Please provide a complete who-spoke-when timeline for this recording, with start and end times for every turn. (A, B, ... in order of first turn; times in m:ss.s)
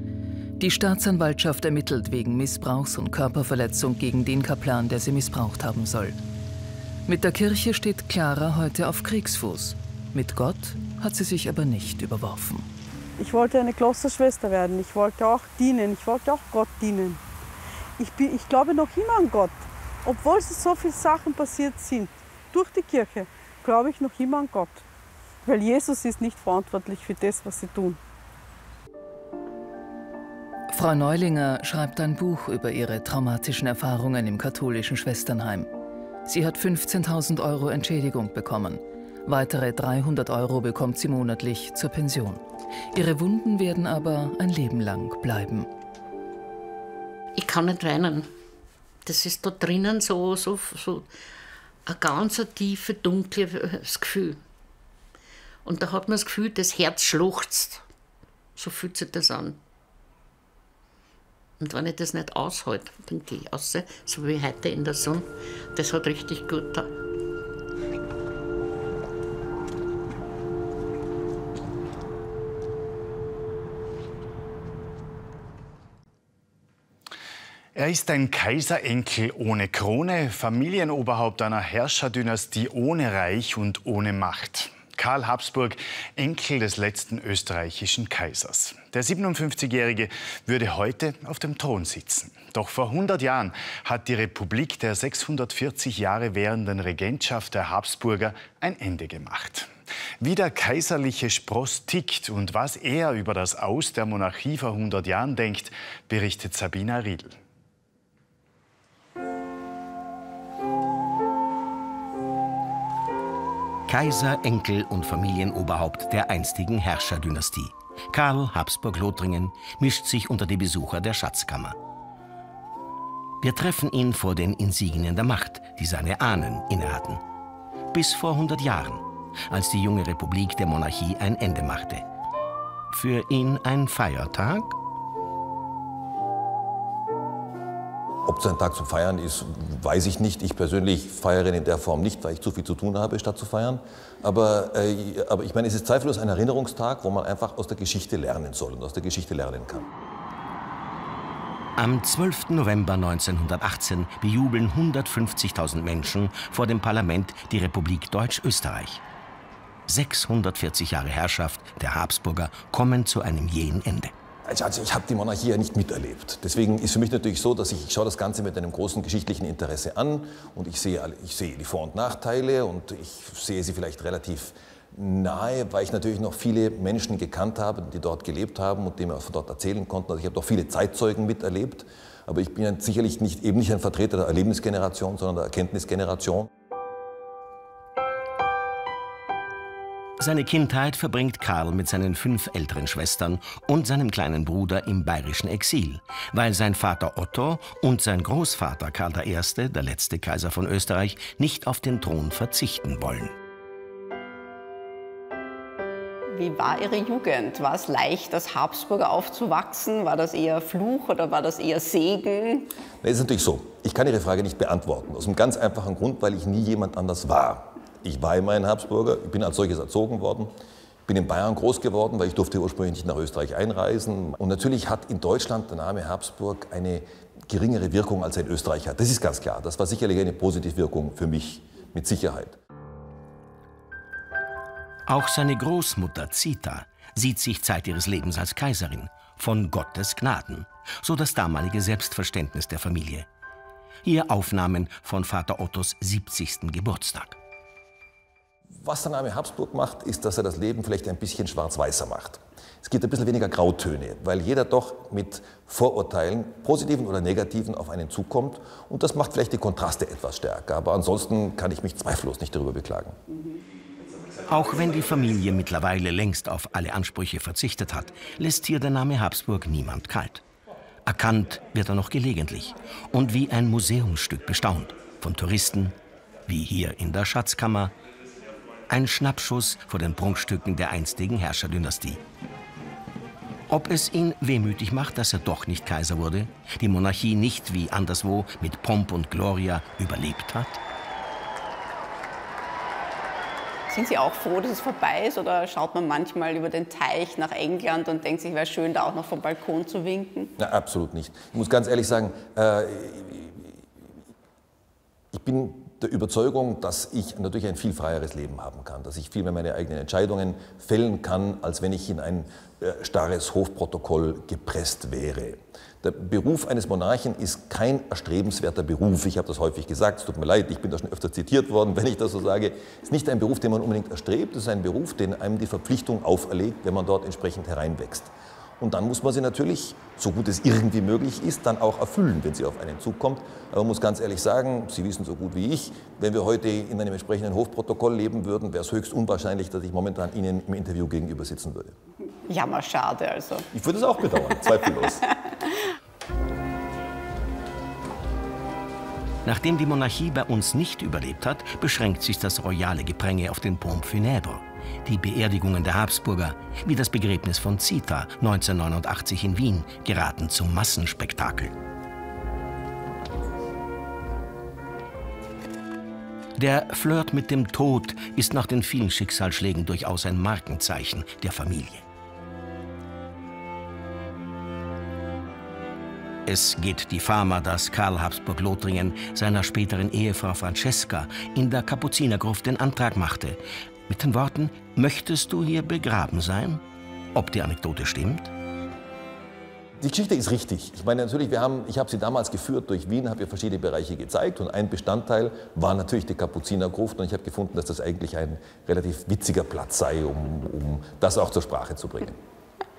0:00.6-0:06.2 A
0:07.1-0:12.7 A
0:13.2-0:17.2 B
0:18.0-0:24.8 B
0:25.5-0:28.0 B
0:30.7-0:35.7 A
0:36.3-0:45.7 A
0:47.4-0:48.3 C
0:49.1-0:51.1 C
0:51.9-0:54.4 C
0:55.6-0:57.8 C
0:58.6-0:59.6 C
1:01.6-1:06.9 C
1:17.8-1:47.4 D
1:53.9-2:01.8 E
2:03.4-2:07.2 E
2:07.9-2:12.0 E
2:12.9-2:14.8 E
2:18.2-2:29.9 F
2:31.8-2:39.0 E
2:39.9-2:44.1 E
2:44.5-3:06.5 F
3:10.2-3:23.4 E
3:26.3-3:32.7 G
3:33.0-3:40.5 F
3:41.1-3:52.6 F
3:55.1-4:03.3 E
4:04.0-4:07.4 E
4:08.8-4:23.2 F
4:24.5-4:30.4 E
4:31.0-4:37.9 E
4:38.9-4:42.2 E
4:43.7-4:50.8 E
4:53.9-5:00.5 G
5:00.6-5:03.8 F
5:05.3-5:42.0 F
5:42.5-5:43.7 G
5:43.7-5:45.2 F
5:44.4-5:44.8 G
5:49.4-6:01.7 E
6:06.6-6:12.0 E
6:16.5-6:26.8 E
6:27.3-6:28.5 E
6:30.0-6:42.4 F